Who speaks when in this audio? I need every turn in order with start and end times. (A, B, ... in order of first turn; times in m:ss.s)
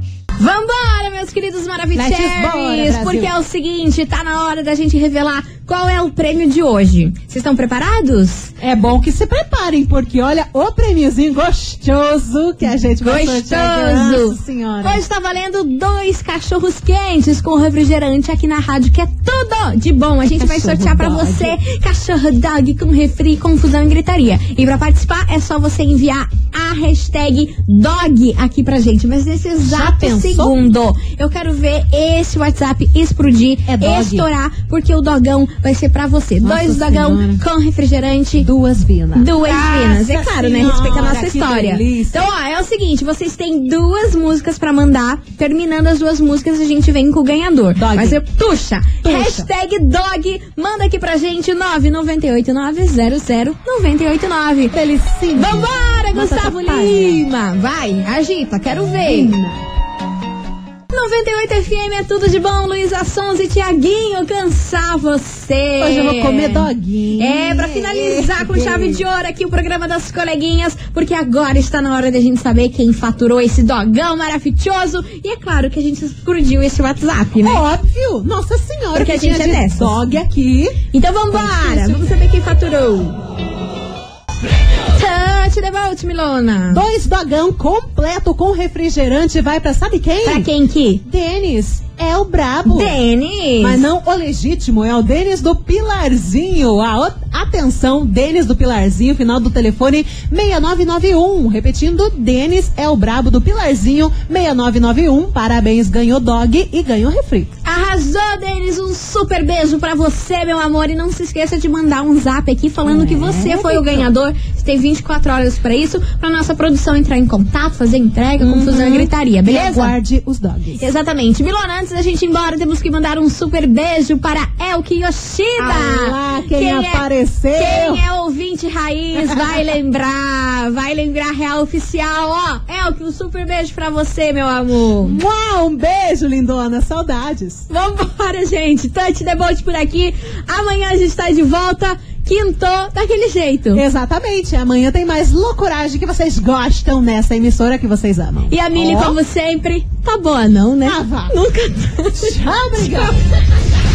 0:00.4-0:08.5 A
0:01.9-0:03.3 B
0:08.6-0:15.0 B
0:13.0-0:38.5 A
0:20.3-0:21.6 B
0:29.6-0:30.6 B
0:33.7-0:34.3 B
0:36.4-0:37.4 B
0:38.4-0:42.3 B
0:39.2-0:54.8 A
0:47.8-0:48.2 B
0:49.0-0:49.5 B
0:54.7-0:57.2 B
0:55.3-0:59.4 A
0:59.0-0:59.6 B
1:00.9-1:17.6 A
1:05.8-1:09.0 B
1:17.4-1:22.1 B
1:18.9-1:20.0 A
1:20.9-1:23.2 A
1:24.9-1:26.8 A
1:26.7-1:30.5 B
1:30.2-1:31.0 A
1:31.0-1:33.0 B
1:32.6-1:33.9 A
1:33.6-1:47.6 B
1:47.6-1:59.9 A
1:52.8-1:54.1 B
1:58.4-2:00.9 B
2:00.8-2:15.2 A
2:05.6-2:08.0 B
2:09.2-2:09.6 B
2:15.0-2:17.7 B
2:17.7-2:23.8 A
2:23.7-2:29.2 B
2:28.5-2:33.1 A
2:30.8-2:31.4 B
2:32.1-2:33.2 B